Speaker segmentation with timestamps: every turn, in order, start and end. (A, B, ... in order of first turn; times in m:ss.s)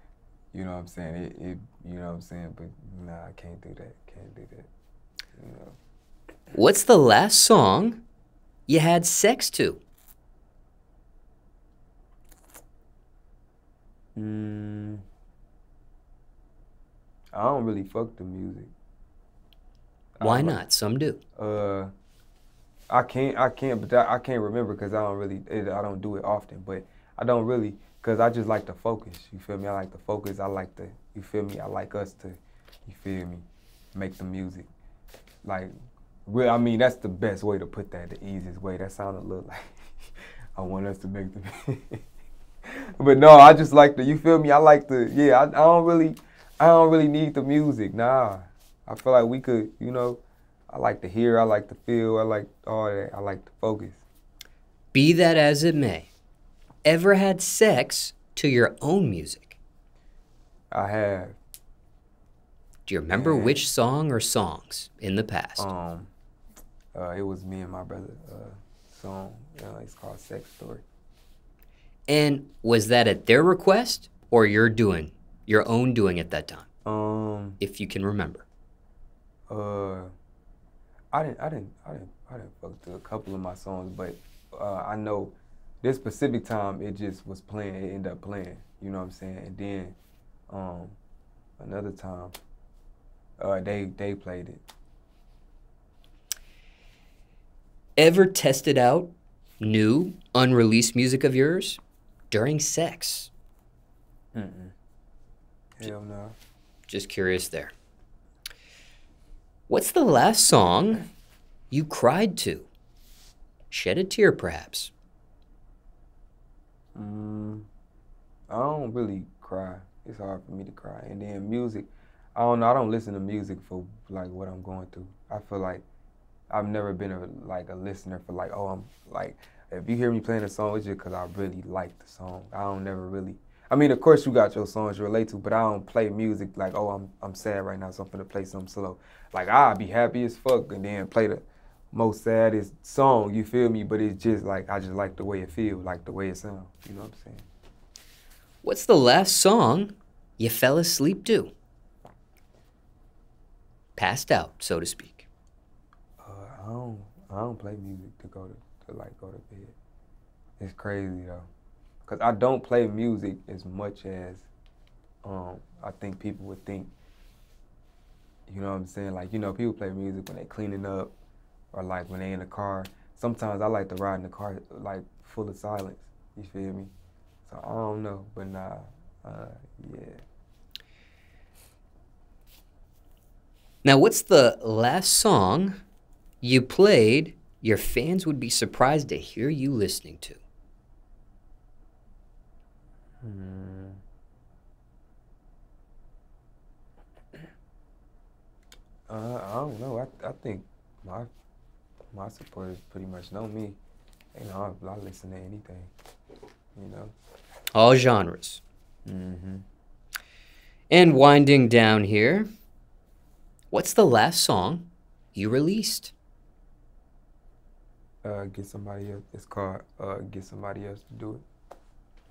0:00.5-0:04.7 A
0:05.3-0:05.8 A
0:06.5-0:08.0 B
0:08.7-0:09.8 B
0:14.2-0:15.0 A
0:17.3-0:18.7 A
0:20.2-0:20.6 A
0:20.2-0:21.2 B
0:21.4-0:21.9 A
0:22.9-0:34.7 A
0:35.4-0:35.7 A
0:36.2-0:39.9 A
0:40.6-0:42.0 A
0:42.7-0:54.0 A
0:54.9-0:56.1 B
0:56.8-0:59.6 B
1:00.7-1:01.4 A
1:02.8-1:05.7 B
1:03.1-1:03.7 A
1:05.6-1:06.1 A
1:06.9-1:10.8 A
1:12.1-1:16.7 B
1:16.8-1:17.6 A
1:17.6-1:18.4 B
1:19.5-1:20.1 A
1:21.1-1:30.0 A
1:30.5-1:31.0 A
1:31.6-1:32.3 A
1:33.4-1:34.6 A
1:38.0-1:41.8 B
1:42.3-1:43.3 B
1:44.3-1:44.7 A
1:45.8-1:46.4 A
1:46.9-1:47.7 B
1:49.7-1:51.0 B
1:51.7-1:52.7 B
1:53.7-1:54.9 B
1:56.9-1:57.7 A
1:58.5-2:05.8 A
2:06.5-2:27.4 A
2:28.6-2:31.5 B
2:34.0-2:35.3 B
2:36.2-2:39.7 A
2:40.6-2:41.5 A
2:42.0-2:44.5 A
2:45.2-2:46.9 A
2:48.5-2:51.1 A
2:51.7-2:56.9 A
2:57.4-3:00.2 A
3:03.8-3:05.8 B
3:06.4-3:10.4 B
3:13.2-3:14.0 A
3:19.1-3:21.3 A
3:22.1-3:23.8 A
3:24.3-3:25.9 A
3:26.7-3:27.1 A
3:27.7-3:28.6 B
3:29.0-3:29.6 A
3:30.9-3:32.5 B
3:33.7-3:36.1 B
3:38.2-3:41.4 A